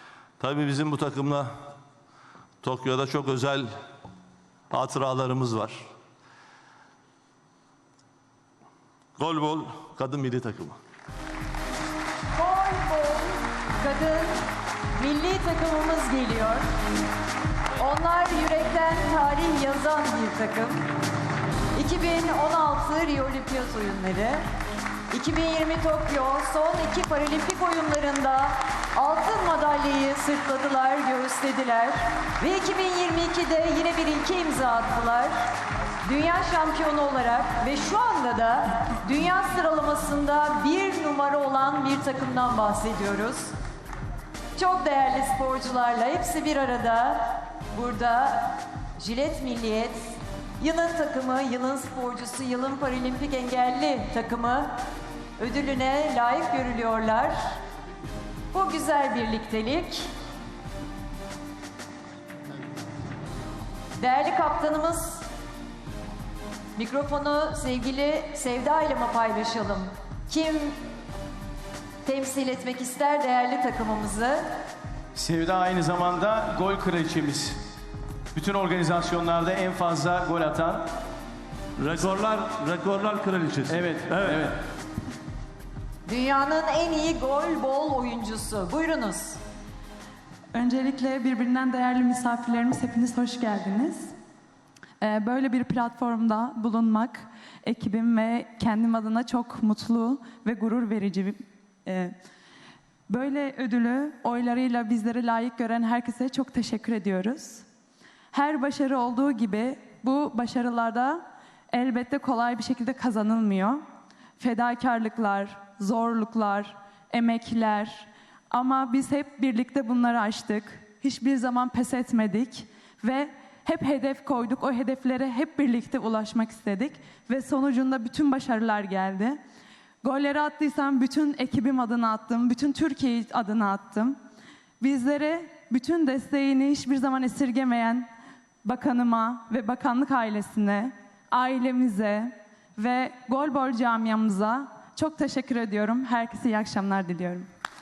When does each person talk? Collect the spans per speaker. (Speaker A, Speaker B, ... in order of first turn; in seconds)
Speaker A: 0.4-1.5, 2.6-3.7, 4.7-5.8, 9.2-10.8, 81.8-84.4
Speaker B: 12.4-14.3, 15.0-16.6, 17.8-20.9, 21.8-24.4, 25.1-35.3, 36.0-43.5, 44.5-54.7, 55.4-57.4, 58.5-60.1, 64.0-65.2, 66.8-70.7, 72.0-74.4, 86.0-89.4
Speaker C: 75.1-77.6, 78.3-80.8, 83.7-84.6
Speaker D: 90.5-94.1, 95.0-102.1, 103.1-107.6, 108.3-113.8, 114.4-129.4, 130.0-134.2, 134.8-138.1, 138.6-147.5